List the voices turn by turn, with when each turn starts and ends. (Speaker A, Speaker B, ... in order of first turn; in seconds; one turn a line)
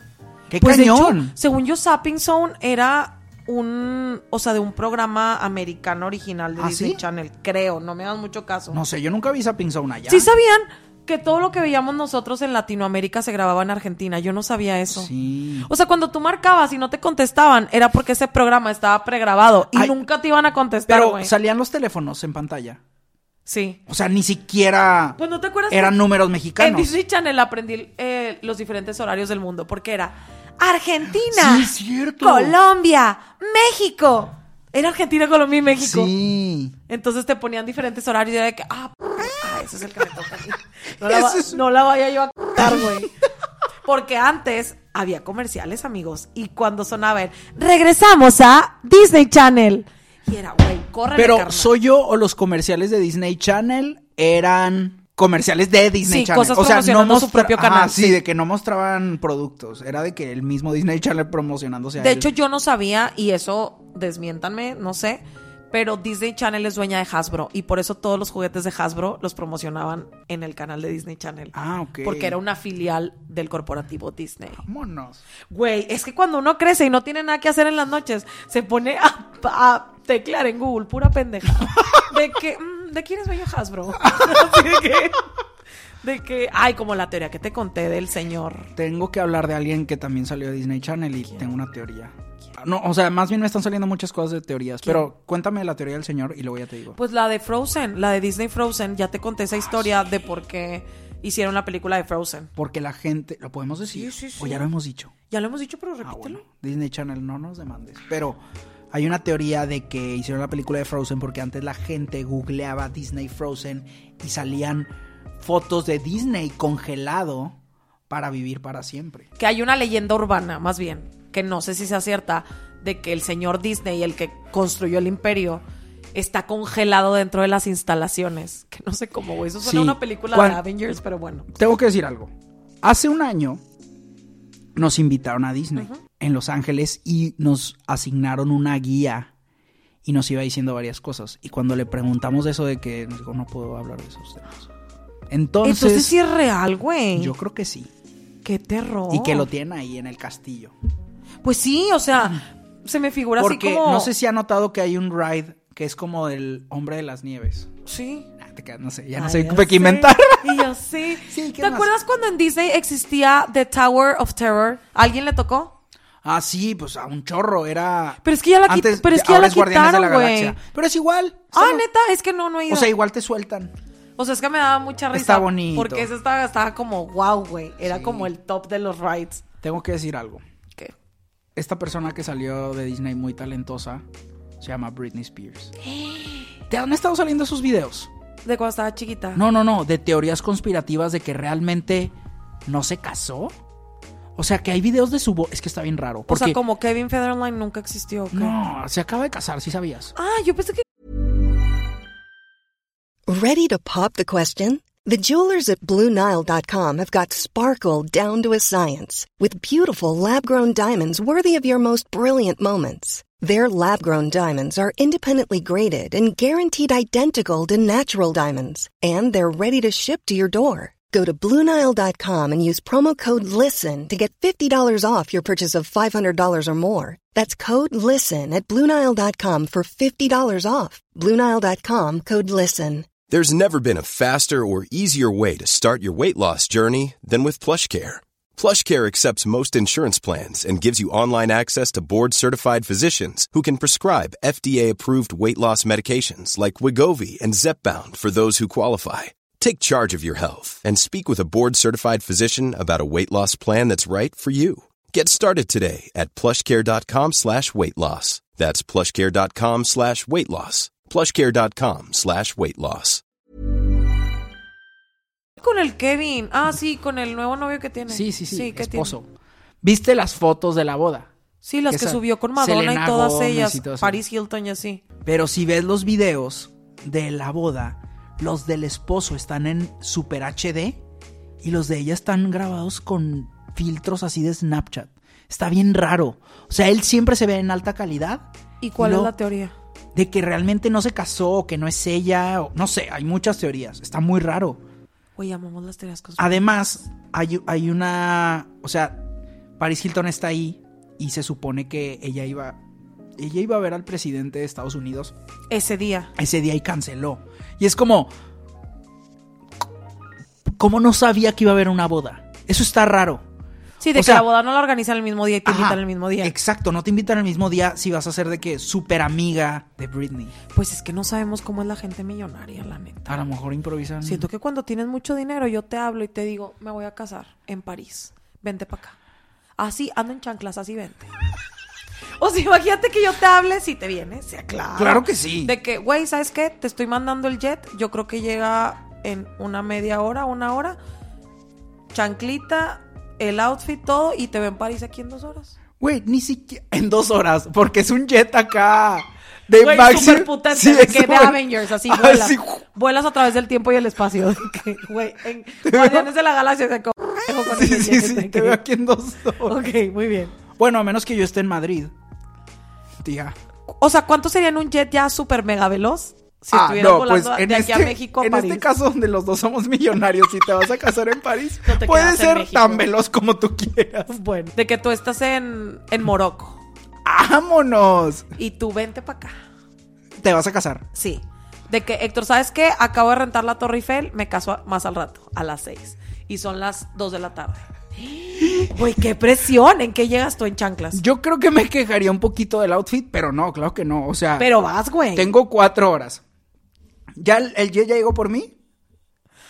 Speaker A: 0.5-1.3
Speaker B: 0.6-8.8
Speaker A: 6.6-7.0
Speaker A: 8.7-10.3
Speaker B: 10.1-15.1
Speaker A: 14.9-15.7
Speaker B: 15.6-21.3
Speaker A: 20.9-22.8
Speaker B: 23.5-23.8
Speaker A: 23.9-25.2
Speaker B: 25.2-26.0
Speaker A: 25.7-26.9
Speaker B: 26.6-36.1
Speaker A: 31.3-32.6
Speaker A: 35.8-36.8
Speaker B: 36.9-43.1
Speaker A: 41.0-41.6
Speaker A: 42.6-43.1
Speaker B: 43.8-51.7
Speaker A: 51.1-62.3
Speaker B: 56.0-58.2
Speaker B: 62.0-74.7
Speaker A: 71.5-72.4
Speaker A: 74.6-75.2
Speaker B: 75.5-85.2
Speaker A: 81.8-82.0
Speaker A: 84.0-84.7
Speaker B: 86.0-88.7
Speaker A: 88.8-97.0
Speaker B: 94.8-95.1
Speaker B: 97.0-102.5
Speaker A: 102.6-105.1
Speaker B: 103.9-104.7
Speaker B: 105.3-106.4
Speaker A: 106.0-108.4
Speaker A: 108.9-117.6
Speaker A: 118.1-119.3
Speaker B: 119.4-125.6
Speaker B: 126.1-131.5
Speaker A: 129.6-130.6
Speaker A: 131.5-133.6
Speaker A: 134.8-139.3
Speaker B: 135.8-136.0
Speaker A: 140.1-144.7
Speaker A: 145.3-146.2
Speaker B: 145.6-147.3
Speaker A: 147.2-147.9
Speaker B: 148.4-149.5
Speaker A: 149.1-150.7
Speaker B: 151.4-154.1
Speaker A: 153.4-157.7
Speaker B: 157.9-158.3
Speaker A: 158.4-160.7
Speaker B: 159.2-165.7
Speaker A: 161.2-161.9
Speaker A: 166.2-171.8
Speaker B: 168.2-170.6
Speaker B: 171.5-172.9
Speaker A: 172.7-173.7
Speaker B: 174.2-179.4
Speaker A: 175.1-176.1
Speaker A: 177.8-178.3
Speaker A: 179.6-180.4
Speaker A: 181.6-184.1
Speaker A: 184.6-185.8
Speaker B: 185.8-186.5
Speaker A: 186.7-188.1
Speaker B: 188.4-189.4
Speaker A: 189.3-192.2
Speaker A: 192.7-193.5
Speaker A: 194.4-196.6
Speaker B: 196.3-198.6
Speaker A: 198.3-200.1
Speaker B: 200.2-200.8
Speaker C: 203.3-233.1
Speaker D: 233.3-263.2
Speaker B: 265.6-269.2
Speaker A: 268.1-269.3
Speaker A: 269.8-271.3
Speaker B: 271.6-275.0
Speaker A: 271.9-274.2
Speaker A: 275.2-281.0
Speaker A: 281.6-289.3
Speaker B: 288.8-289.8
Speaker A: 290.1-294.8
Speaker B: 295.4-296.7
Speaker A: 296.4-299.2
Speaker A: 299.8-302.8
Speaker A: 303.4-305.3
Speaker B: 305.7-306.3
Speaker A: 306.4-308.3
Speaker A: 310.7-313.4
Speaker B: 314.0-316.5
Speaker A: 314.1-314.5
Speaker A: 315.6-320.6
Speaker B: 320.7-323.4
Speaker A: 323.3-324.5
Speaker B: 324.2-329.2
Speaker B: 329.8-331.3
Speaker B: 332.4-341.0
Speaker A: 335.0-335.7
Speaker B: 342.1-345.8
Speaker A: 346.0-352.8
Speaker B: 349.8-358.8
Speaker A: 355.8-356.3
Speaker A: 357.7-359.8
Speaker B: 359.6-360.6
Speaker A: 360.8-362.1
Speaker A: 363.2-363.6
Speaker B: 363.9-368.9
Speaker A: 366.7-374.3
Speaker B: 371.9-373.1
Speaker B: 374.3-376.8
Speaker A: 377.2-378.5
Speaker B: 378.6-379.6
Speaker A: 380.4-381.1
Speaker B: 381.1-391.2
Speaker A: 388.6-388.9
Speaker A: 391.1-394.7
Speaker B: 394.6-395.5
Speaker A: 395.3-396.4
Speaker A: 397.4-398.7